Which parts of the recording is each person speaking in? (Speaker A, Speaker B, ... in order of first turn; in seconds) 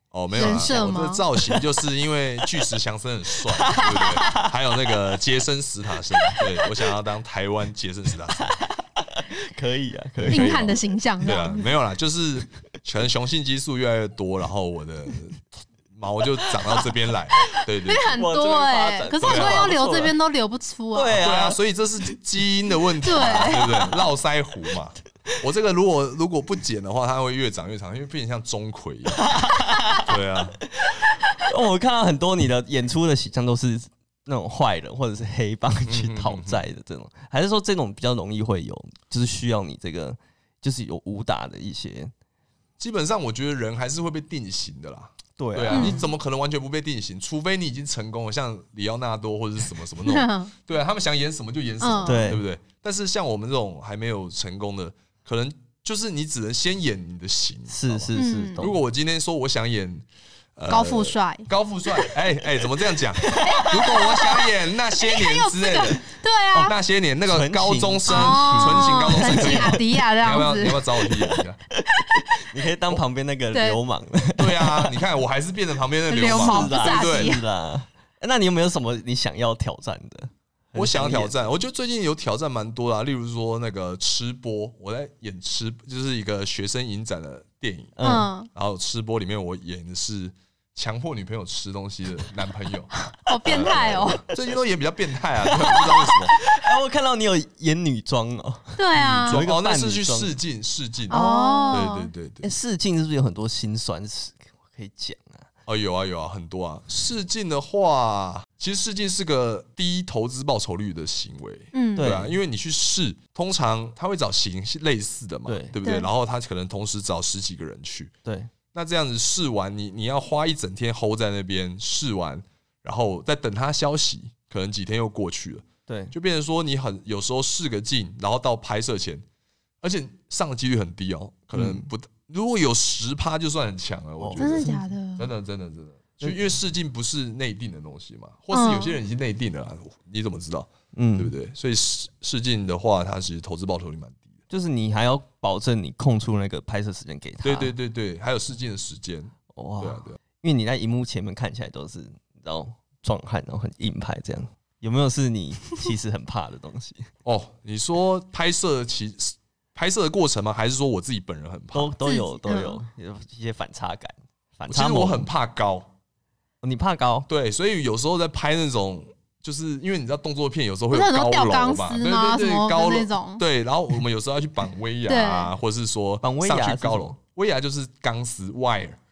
Speaker A: 0.1-8.5, 10.2-18.2, 19.2-19.7, 21.2-29.3, 30.0-30.6, 35.9-36.6, 42.8-66.0, 66.6-71.6, 74.4-77.4, 80.7-88.0, 88.5-92.9, 93.4-96.4, 98.9-102.5, 105.7-118.1, 118.7-129.2, 129.8-144.3, 147.4-150.2, 157.2-162.0, 164.7-165.9, 167.3-179.0
Speaker B: 0.3-1.6, 3.6-4.5, 6.2-6.8, 8.4-10.8, 18.1-20.1, 20.9-21.6, 23.1-23.8, 29.2-30.1, 30.7-42.1, 45.4-46.0, 52.0-52.4, 57.7-58.8, 63.2-64.0, 67.2-70.0, 71.2-75.0, 76.2-81.3, 88.0-88.3, 95.4-100.4, 101.1-101.9, 102.4-105.5, 112.0-112.4, 115.5-115.8, 118.2-118.5, 125.9-126.1, 131.5-131.9, 134.2-134.8, 140.9-141.3, 144.5-147.7, 149.5-157.1, 161.7-165.3, 166.6-167.3, 176.2-177.2
Speaker C: 0.3-1.2, 10.3-11.7, 17.9-21.3, 23.0-24.0, 45.7-46.0, 50.0-50.5, 51.8-52.3, 58.1-58.6, 60.7-61.5, 63.4-66.7, 68.1-70.8, 73.5-73.8, 76.1-77.4, 88.0-88.5, 93.2-94.2, 98.8-99.4, 101.1-102.1, 111.7-112.1, 115.8-116.1, 134.4-135.3, 138.5-139.0, 162.0-162.8, 170.9-173.4, 175.1-175.5